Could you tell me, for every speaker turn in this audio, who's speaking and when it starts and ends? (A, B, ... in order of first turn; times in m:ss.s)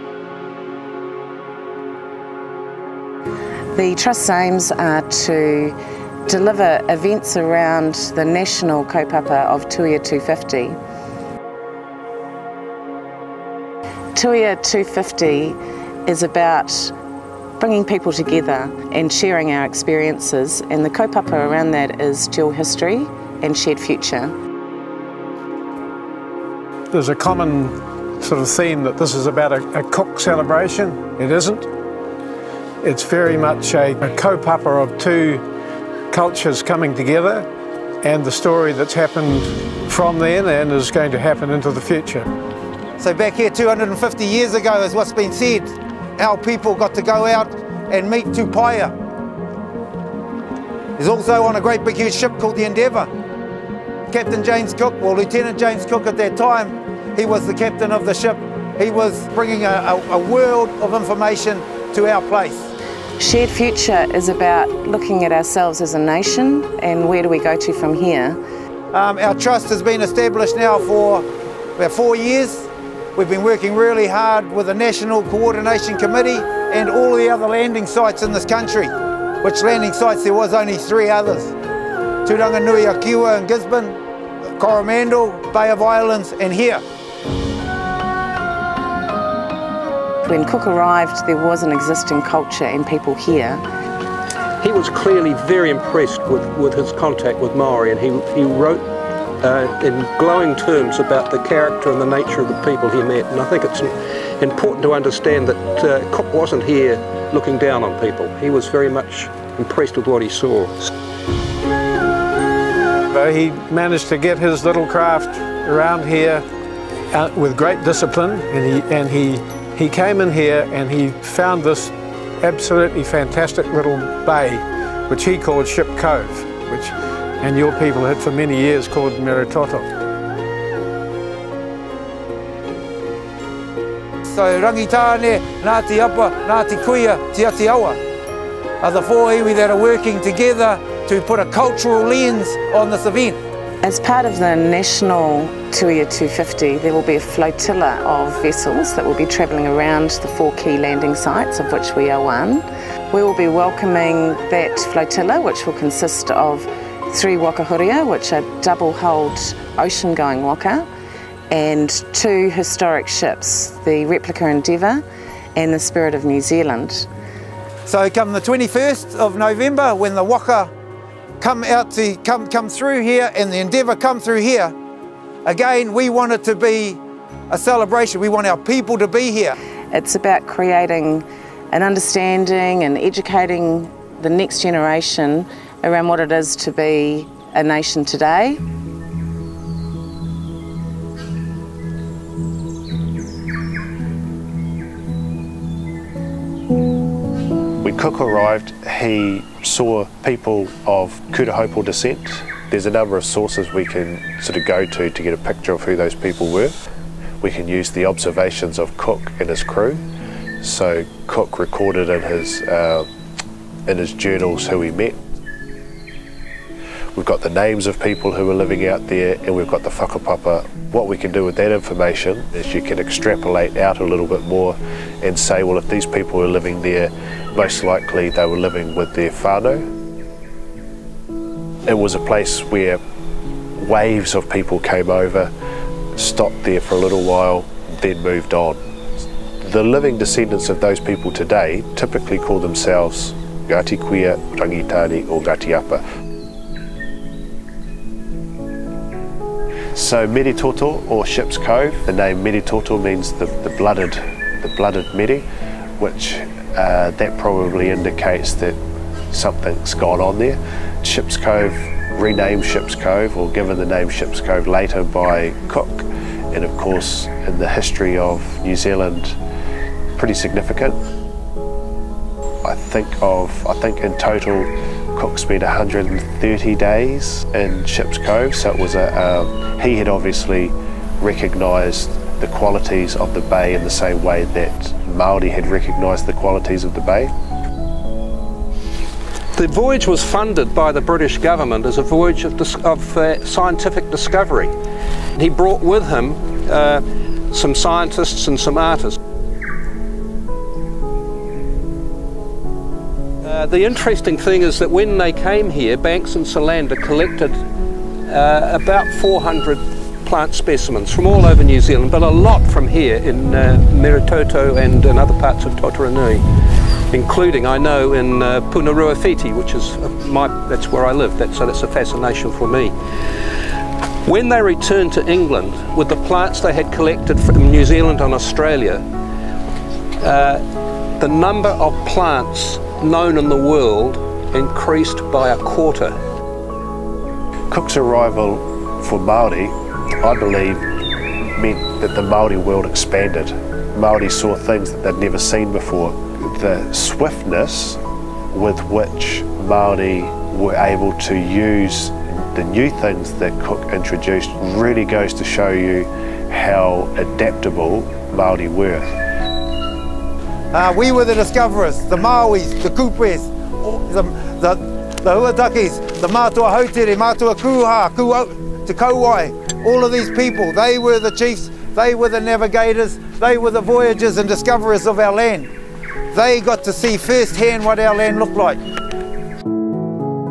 0:03.7-0:10.8 A
0:14.1-0:16.9 A
0:17.6-0:24.3 A
0:26.9-0:31.7 B
0:32.8-0:35.4 B
0:36.1-0:37.5 B
0:38.0-0:42.3 B
0:43.0-0:48.9 C
0:51.0-0:53.1 C
0:54.1-1:02.7 C
1:03.2-1:08.4 A
1:08.9-1:11.2 C
1:11.8-1:21.5 C
1:22.2-1:24.0 C
1:24.6-1:26.8 C
1:30.2-1:33.6 A
1:34.6-1:38.8 D
1:39.4-1:50.9 D
1:53.1-1:56.4 B
1:57.1-2:09.9 B
2:14.3-2:18.0 C
2:18.8-2:23.4 C
2:23.8-2:40.9 A
2:41.5-2:45.0 A
2:45.6-2:47.1 A
2:47.8-2:50.7 C
2:51.4-2:54.7 C
2:55.4-2:59.6 C
2:59.9-3:08.6 A
3:17.8-3:26.8 E
3:27.4-3:30.0 E
3:30.6-3:33.1 E
3:33.9-3:35.2 E
3:37.1-3:49.9 E
3:51.8-3:53.0 E
3:53.8-3:55.5 E
3:56.2-3:58.8 E
3:59.6-4:06.0 E
4:09.9-4:15.4 E
4:16.0-4:18.8 E
4:19.3-4:29.4 E
4:30.2-4:31.0 E
4:32.6-4:47.3 E
4:49.5-4:54.7 D
4:55.4-4:59.2 D
5:03.4-5:07.6 D
5:08.3-5:16.4 D
5:17.1-5:22.9 D
5:24.2-5:29.0 D
5:30.2-5:30.6 D
5:31.2-5:36.2 D
5:37.7-5:40.8 E
5:41.5-5:48.0 E
5:48.5-5:59.2 E
6:00.7-6:15.7 C
6:16.3-6:18.8 C